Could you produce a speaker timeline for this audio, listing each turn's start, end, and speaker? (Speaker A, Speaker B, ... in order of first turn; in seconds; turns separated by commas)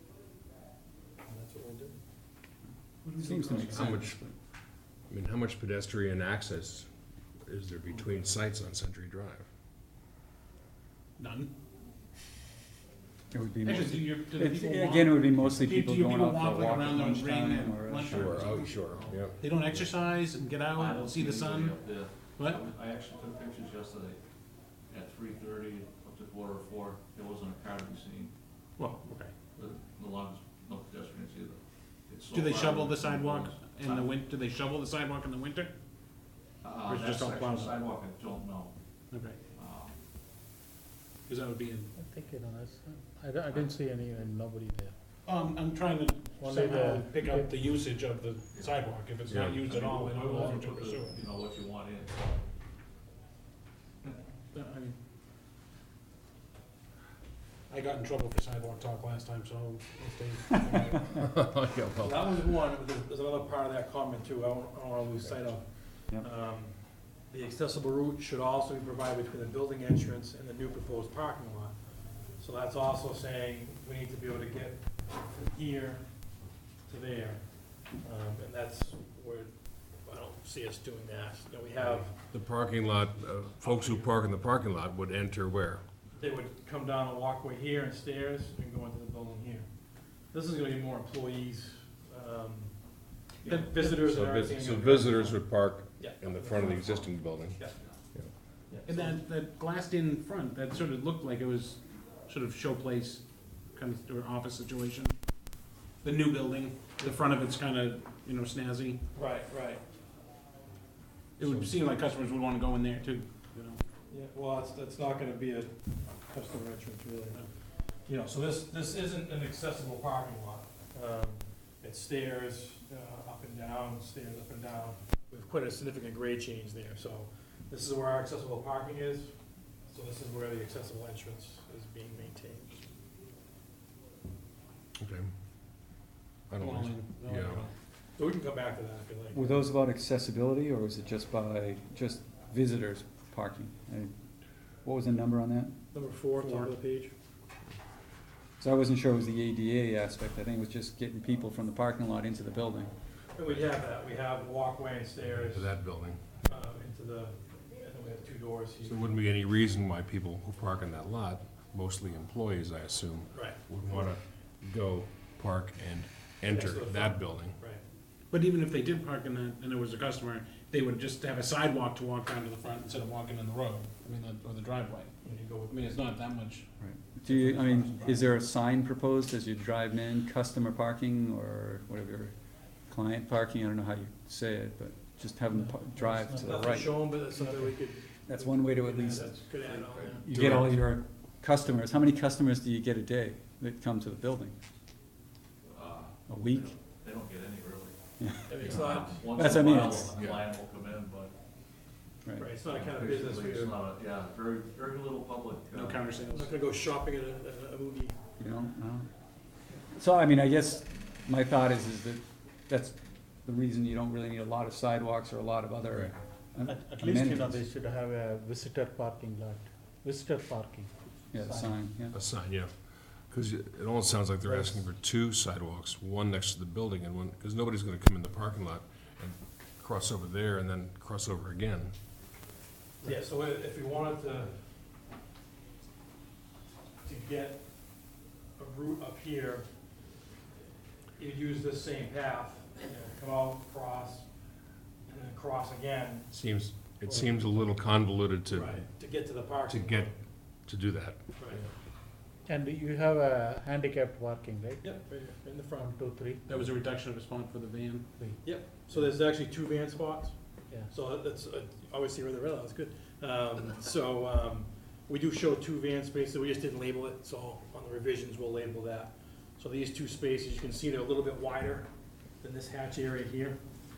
Speaker A: 1.2-2.0, Speaker B: 3.1-3.7, Speaker C: 3.1-4.3, Speaker D: 3.5-4.2, Speaker D: 5.1-9.5, Speaker B: 11.2-11.5, Speaker C: 13.3-18.6, Speaker B: 13.6-18.8, Speaker D: 18.0-19.9, Speaker B: 19.4-21.8, Speaker E: 20.7-24.2, Speaker B: 22.4-22.6, Speaker E: 24.9-28.3, Speaker B: 28.8-29.4, Speaker E: 29.5-34.1, Speaker B: 32.3-35.7, Speaker E: 36.6-38.8, Speaker B: 36.9-37.8, Speaker B: 39.1-39.4, Speaker E: 39.5-40.0, Speaker B: 41.3-41.9, Speaker F: 41.9-44.9, Speaker B: 45.2-51.2, Speaker F: 46.4-47.7, Speaker D: 49.3-49.6, Speaker E: 49.5-52.2, Speaker B: 54.5-55.0, Speaker B: 57.7-61.0, Speaker D: 61.1-62.4, Speaker A: 62.0-82.2, Speaker D: 82.3-85.8, Speaker A: 83.7-84.1, Speaker A: 86.2-95.5, Speaker D: 93.5-98.3, Speaker A: 96.0-97.8, Speaker A: 98.7-99.2, Speaker B: 98.8-105.2, Speaker B: 106.0-109.0, Speaker A: 109.1-109.8, Speaker B: 111.4-113.8, Speaker D: 111.4-111.7, Speaker A: 114.1-117.5, Speaker A: 118.0-132.8, Speaker D: 135.0-135.3, Speaker D: 136.5-137.7, Speaker B: 136.6-137.7, Speaker A: 138.2-139.6, Speaker C: 139.3-144.1, Speaker C: 144.8-145.8, Speaker A: 145.9-147.1, Speaker B: 146.4-146.7, Speaker C: 148.6-152.9, Speaker A: 153.3-155.7, Speaker D: 155.3-156.2, Speaker A: 156.4-159.2, Speaker D: 158.8-167.6, Speaker A: 163.3-164.1, Speaker A: 166.5-167.8, Speaker B: 168.3-175.1, Speaker A: 175.2-176.0, Speaker B: 175.7-176.7, Speaker C: 176.8-182.3, Speaker A: 177.5-178.2, Speaker C: 182.8-187.2, Speaker F: 185.5-187.7, Speaker A: 186.4-190.3, Speaker C: 188.2-189.5, Speaker D: 190.0-190.8, Speaker C: 190.2-194.6, Speaker E: 195.6-197.9, Speaker C: 196.3-196.7, Speaker C: 198.2-200.1, Speaker A: 198.5-199.3, Speaker E: 198.7-201.3, Speaker D: 200.1-200.5, Speaker A: 202.4-203.8, Speaker E: 202.7-206.0, Speaker B: 205.8-206.5, Speaker A: 206.3-208.2, Speaker C: 208.4-209.1, Speaker C: 209.9-217.6, Speaker F: 216.6-221.9, Speaker C: 221.3-222.1, Speaker D: 222.1-231.9, Speaker F: 224.4-224.9, Speaker A: 233.0-234.6, Speaker A: 237.0-239.7, Speaker A: 241.2-244.3, Speaker A: 245.1-246.3, Speaker D: 246.3-248.8, Speaker F: 247.1-247.6, Speaker A: 248.5-250.1, Speaker D: 249.4-251.4, Speaker A: 251.4-251.6, Speaker F: 252.4-255.0, Speaker A: 254.8-255.9, Speaker F: 255.8-256.6, Speaker B: 256.5-258.1, Speaker F: 258.2-259.1, Speaker A: 258.4-271.9, Speaker A: 272.4-273.6